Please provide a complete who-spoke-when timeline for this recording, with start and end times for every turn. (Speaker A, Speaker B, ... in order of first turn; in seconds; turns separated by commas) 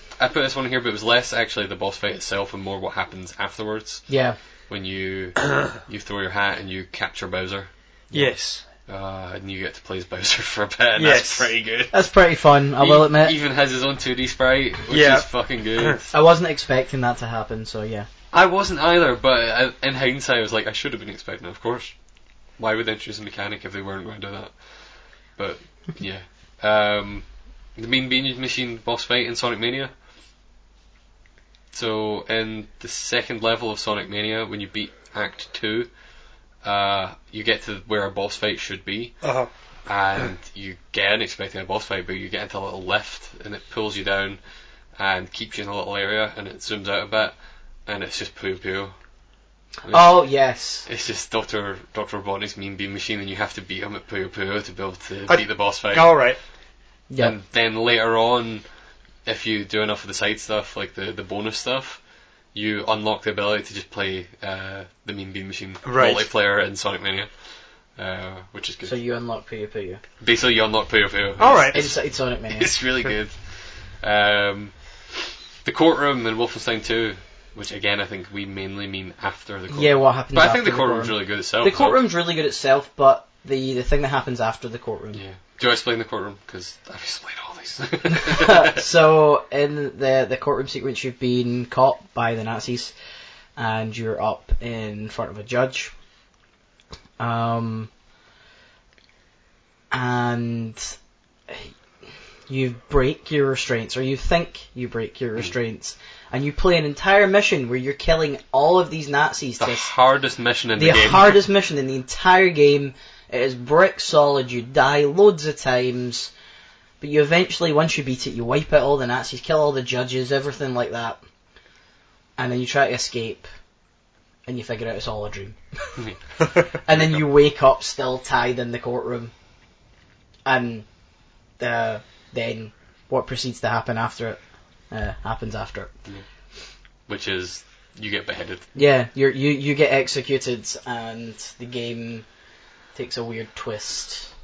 Speaker A: 0.2-4.2, Speaker B: 4.1-4.4, Speaker A: 4.7-8.3, Speaker C: 8.1-8.7, Speaker A: 8.9-12.1, Speaker C: 11.0-11.5, Speaker B: 11.9-13.3, Speaker A: 12.8-16.1, Speaker C: 14.9-15.9, Speaker B: 16.1-18.1, Speaker A: 18.3-22.0, Speaker A: 22.5-29.9, Speaker A: 31.7-35.9, Speaker A: 36.5-44.4, Speaker C: 39.2-39.5, Speaker A: 45.0-49.0, Speaker B: 49.8-50.9, Speaker A: 49.9-56.3, Speaker C: 55.3-56.4, Speaker B: 57.1-57.4, Speaker A: 57.2-58.6, Speaker A: 59.2-69.0, Speaker C: 65.8-66.2, Speaker B: 68.8-70.0, Speaker A: 70.2-82.0, Speaker C: 71.4-71.8, Speaker B: 71.7-73.0, Speaker B: 79.7-85.2, Speaker A: 85.1-88.8, Speaker B: 88.1-93.0, Speaker B: 93.6-95.9, Speaker B: 97.2-97.9, Speaker B: 99.9-101.0, Speaker B: 102.5-109.9, Speaker A: 109.6-111.4, Speaker B: 110.8-116.3, Speaker B: 117.0-121.2, Speaker B: 122.4-123.5, Speaker B: 124.5-126.0, Speaker A: 126.0-126.3, Speaker B: 126.8-129.3, Speaker A: 126.9-127.2, Speaker B: 130.4-131.0, Speaker B: 131.6-135.9, Speaker A: 137.1-138.7, Speaker B: 138.7-142.3, Speaker B: 142.9-144.3